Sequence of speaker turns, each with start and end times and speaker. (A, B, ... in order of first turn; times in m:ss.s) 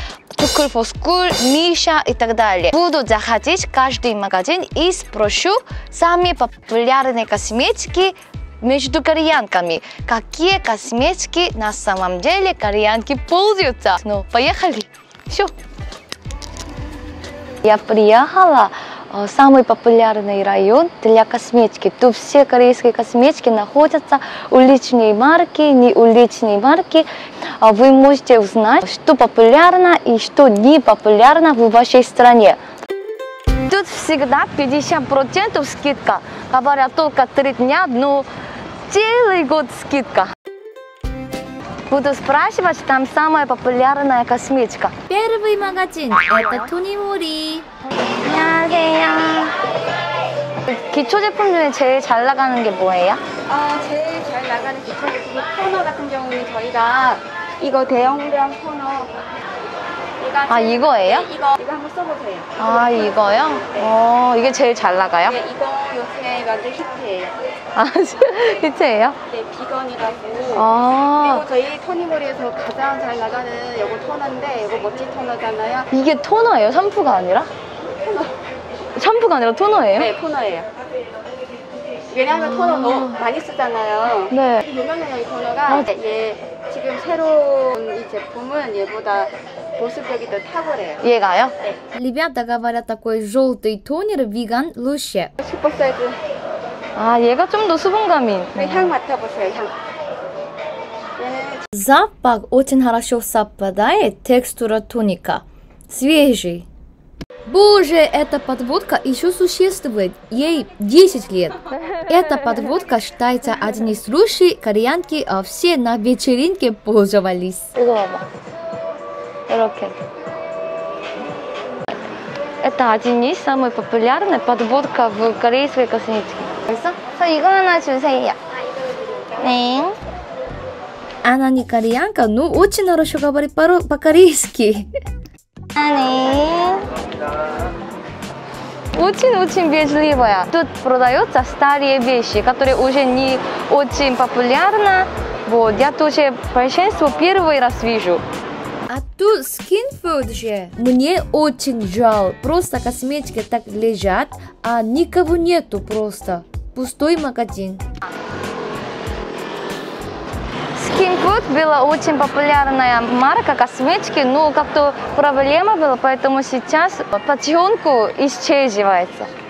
0:00.4-0:15.5 A
0:17.6-0:27.1 A
0:27.6-0:32.6 A
0:33.7-0:38.3 A
0:38.9-0:40.3 A
0:41.9-0:45.0 A
0:45.1-0:47.7 B
0:48.2-0:49.6 A
0:50.6-0:53.2 A
0:53.5-0:59.2 C
1:00.2-1:03.2 C
1:00.5-1:01.3 A
1:02.6-1:05.4 A
1:05.3-1:07.4 C
1:07.7-1:09.2 A
1:09.3-1:10.7 C
1:10.5-1:11.5 A
1:11.2-1:15.9 C
1:15.9-1:17.5 A
1:18.1-1:18.3 C
1:19.0-1:20.1 A
1:20.0-1:20.7 C
1:22.1-1:31.0 C
1:22.3-1:23.2 A
1:24.3-1:24.6 A
1:31.0-1:31.6 A
1:31.9-1:35.3 B
1:35.4-1:36.2 C
1:37.0-1:39.0 A
1:38.6-1:39.8 C
1:41.2-1:41.7 C
1:41.7-1:46.7 B
1:47.5-1:57.7 B
1:57.7-1:58.2 A
1:59.5-2:00.0 A
2:02.6-2:08.4 A
2:09.4-2:10.0 A
2:11.2-2:14.9 B
2:15.8-2:16.9 A
2:18.9-2:28.2 A
2:28.9-2:37.8 B
2:40.7-2:49.3 A